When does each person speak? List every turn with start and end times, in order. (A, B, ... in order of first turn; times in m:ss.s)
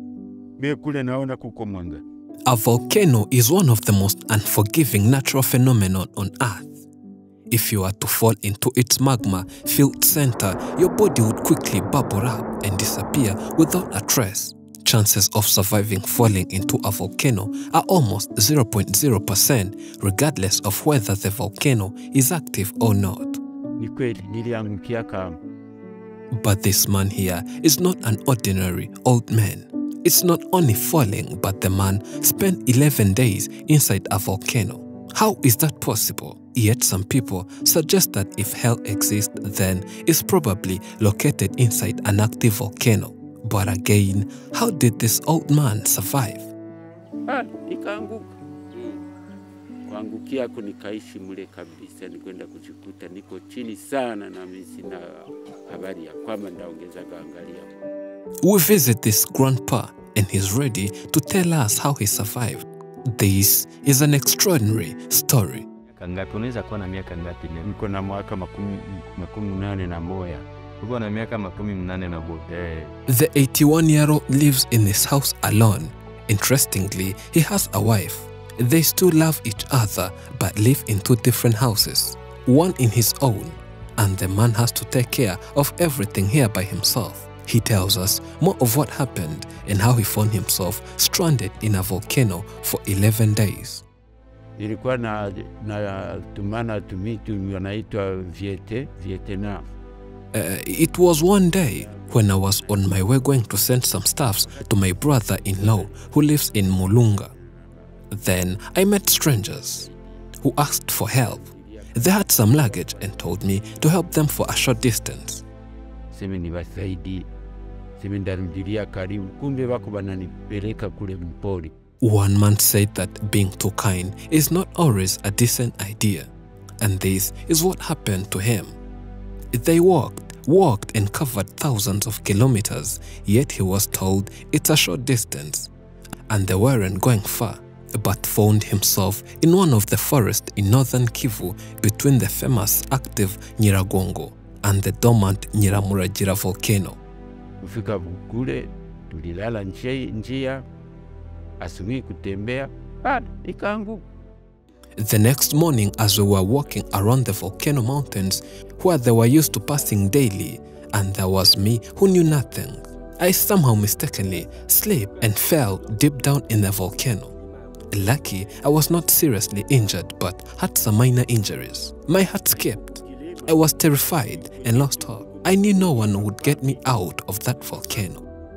0:00.6-0:02.0 A
0:02.5-0:06.8 B
0:07.5-0:23.4 B
0:23.8-0:25.4 A
0:26.3-0:46.5 B
0:47.3-0:49.0 A
0:49.8-0:57.8 A
0:58.4-1:05.6 B
1:06.0-1:07.7 C
1:07.6-1:10.5 A
1:10.8-1:12.9 C
1:13.1-1:33.8 B
1:34.6-1:39.7 A
1:40.3-1:47.3 B
1:41.8-1:43.0 A
1:44.4-1:46.1 A
1:47.3-1:47.7 A
1:48.1-1:49.9 B
1:49.8-1:50.1 A
1:50.4-1:55.4 B
1:51.1-1:53.8 A
1:56.1-1:57.3 A
1:58.0-2:01.7 A
2:02.0-2:08.8 B
2:09.5-2:15.7 B
2:16.3-2:27.0 B
2:27.6-2:30.6 A
2:31.6-2:34.0 A
2:35.0-2:47.3 B
2:47.9-2:58.2 B
2:52.5-2:56.9 A